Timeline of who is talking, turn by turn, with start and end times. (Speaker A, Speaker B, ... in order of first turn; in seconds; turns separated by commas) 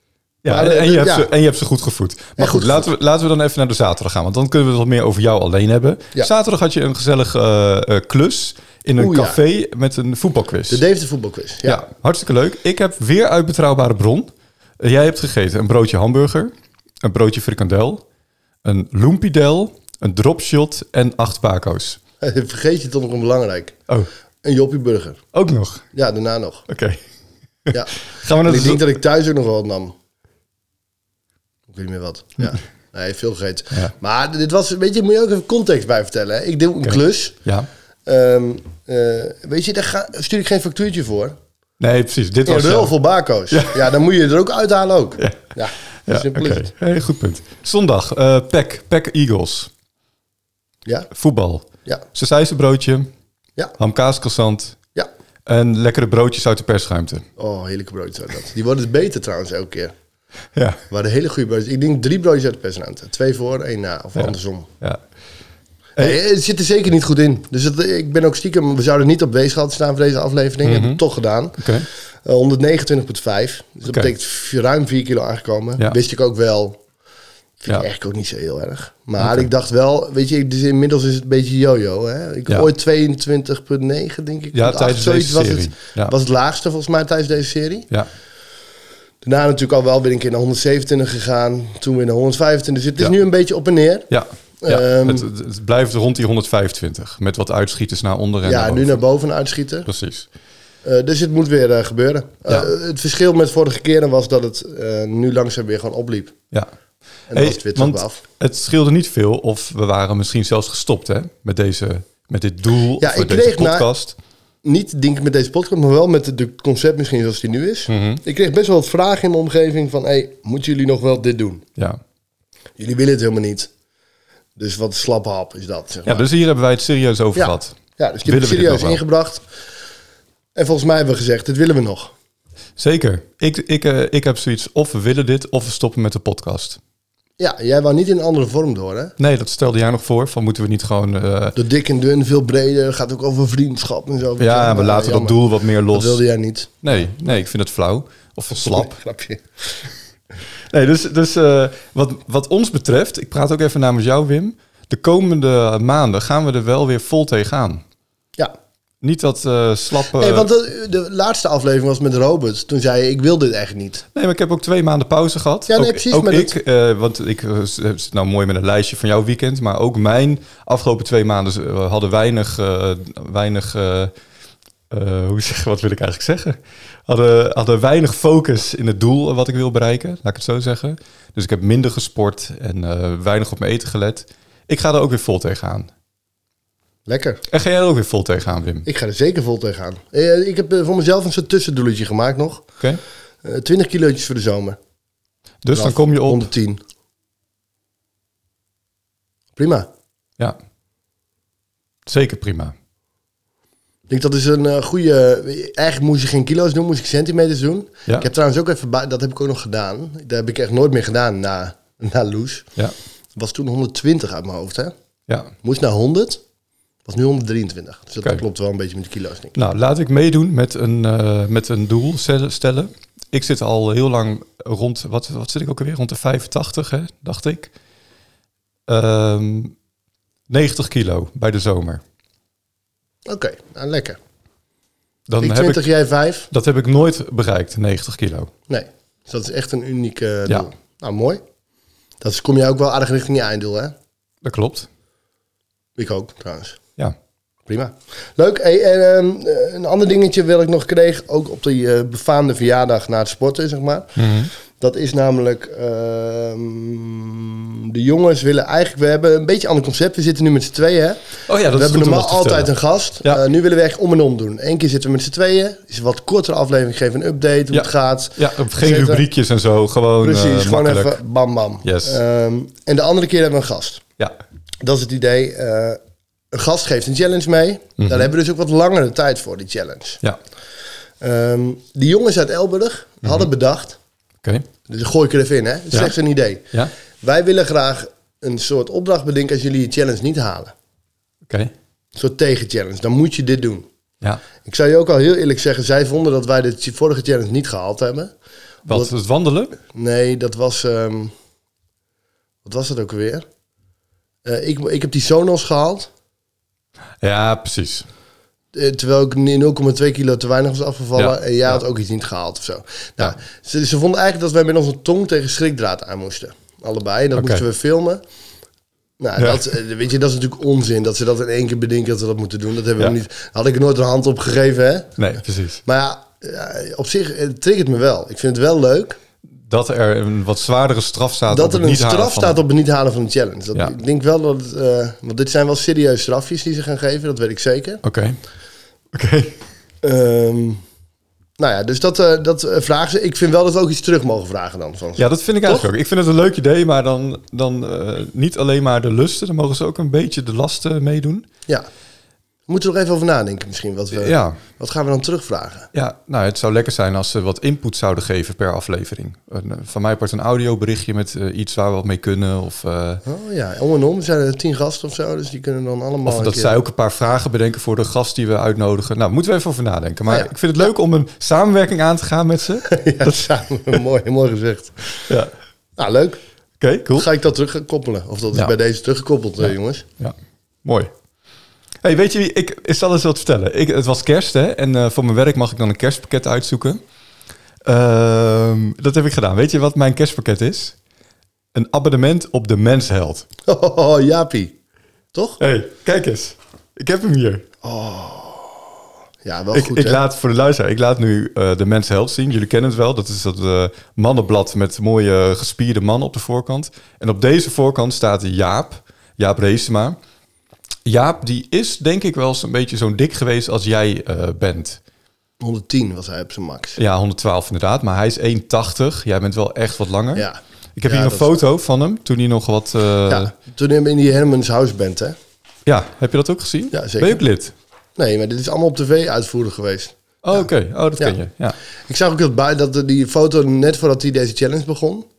Speaker A: 0.4-10.8, Speaker B: 0.5-1.3, Speaker B: 2.4-2.9, Speaker B: 9.0-9.4, Speaker B: 10.7-11.8, Speaker A: 11.6-16.5, Speaker A: 17.0-18.0, Speaker A: 18.6-22.0, Speaker B: 22.2-23.8, Speaker B: 24.4-25.2, Speaker A: 25.3-25.9, Speaker B: 25.9-26.7, Speaker A: 26.7-27.0, Speaker A: 27.6-28.8, Speaker B: 27.7-29.9, Speaker B: 31.7-37.4, Speaker A: 36.8-37.7, Speaker B: 38.0-41.3, Speaker A: 41.8-43.0, Speaker B: 42.5-46.7, Speaker A: 43.5-43.9, Speaker A: 45.2-45.5, Speaker A: 46.1-49.7, Speaker A: 51.1-53.1, Speaker A: 53.8-54.8, Speaker A: 55.5-57.2, Speaker B: 57.4-59.9, Speaker B: 60.9-64.7, Speaker A: 64.2-65.0, Speaker B: 66.0-71.7, Speaker A: 70.6-71.0, Speaker A: 71.6-71.9, Speaker B: 72.2-76.8, Speaker A: 73.8-74.1, Speaker B: 77.6-87.9, Speaker A: 79.2-79.5, Speaker A: 84.5-86.1, Speaker B: 89.2-94.1, Speaker A: 94.1-99.0, Speaker B: 94.6-95.3, Speaker B: 98.4-99.9, Speaker A: 99.8-100.3, Speaker B: 100.8-106.3, Speaker B: 107.3-108.2, Speaker A: 107.3-114.2, Speaker B: 113.0-113.9, Speaker B: 114.6-121.6, Speaker A: 117.9-118.2, Speaker B: 122.8-123.7, Speaker B: 124.6-126.3, Speaker A: 126.0-129.0, Speaker B: 127.3-129.4, Speaker B: 130.5-132.1, Speaker A: 132.8-136.8, Speaker B: 137.4-139.1, Speaker A: 139.2-141.6, Speaker B: 141.6-147.1, Speaker A: 144.4-146.2, Speaker A: 146.8-148.9, Speaker B: 148.5-149.8, Speaker A: 150.7-157.8, Speaker A: 159.0-160.5, Speaker B: 160.1-164.0, Speaker A: 164.1-174.1, Speaker B: 165.7-166.6, Speaker A: 174.9-185.9, Speaker B: 187.1-187.4, Speaker A: 187.5-188.9, Speaker B: 188.8-192.6, Speaker B: 193.4-194.8, Speaker A: 195.6-196.5, Speaker B: 195.7-196.8, Speaker B: 199.6-199.9, Speaker A: 202.1-202.7, Speaker B: 204.1-212.7, Speaker B: 213.3-214.9, Speaker B: 215.6-216.4, Speaker B: 217.1-219.5, Speaker A: 219.5-227.7, Speaker A: 228.9-229.7, Speaker A: 230.5-232.0, Speaker B: 233.3-234.2, Speaker A: 235.3-235.8, Speaker B: 235.4-236.5, Speaker A: 236.5-238.5, Speaker B: 238.7-241.4, Speaker B: 242.2-243.9, Speaker A: 244.4-244.9, Speaker B: 246.0-246.8, Speaker B: 247.7-254.2, Speaker A: 254.2-254.5, Speaker B: 254.8-269.2, Speaker A: 261.5-262.7, Speaker A: 267.7-271.2, Speaker B: 270.2-274.0, Speaker A: 271.8-272.2, Speaker B: 274.8-276.0, Speaker B: 276.5-280.2, Speaker A: 278.0-278.3, Speaker B: 281.2-284.0, Speaker B: 284.9-286.7, Speaker B: 287.2-290.7, Speaker A: 291.5-291.7, Speaker B: 292.1-293.9, Speaker B: 294.6-298.3, Speaker B: 298.9-299.1, Speaker A: 298.9-299.8, Speaker B: 299.9-301.3, Speaker B: 302.6-303.4, Speaker B: 304.4-306.1, Speaker A: 307.2-308.1, Speaker B: 308.7-318.2, Speaker A: 311.1-311.8, Speaker A: 317.3-317.6, Speaker B: 319.2-329.2, Speaker A: 319.4-319.6, Speaker A: 325.2-325.8, Speaker A: 329.7-332.6, Speaker B: 331.5-338.0, Speaker A: 338.0-338.4, Speaker A: 339.1-339.6, Speaker B: 340.0-340.8, Speaker B: 341.6-345.9, Speaker A: 345.2-351.4, Speaker B: 352.7-355.9, Speaker A: 354.1-354.6, Speaker A: 355.9-363.2, Speaker B: 363.2-366.8, Speaker A: 366.2-373.4, Speaker B: 372.9-375.2, Speaker B: 376.0-376.4, Speaker A: 376.8-377.3, Speaker B: 377.1-380.0, Speaker A: 379.6-381.1, Speaker A: 382.0-387.0, Speaker A: 387.8-390.9, Speaker A: 391.7-393.4, Speaker B: 393.7-394.7, Speaker B: 395.3-395.6, Speaker A: 395.6-397.6, Speaker B: 397.8-400.2, Speaker A: 399.7-410.2, Speaker A: 411.0-415.0, Speaker B: 415.6-417.0, Speaker A: 417.0-423.5, Speaker B: 420.3-421.5, Speaker B: 423.3-425.3, Speaker A: 425.9-427.7, Speaker B: 426.9-427.4, Speaker B: 428.2-430.1, Speaker A: 430.4-431.8, Speaker B: 432.1-435.2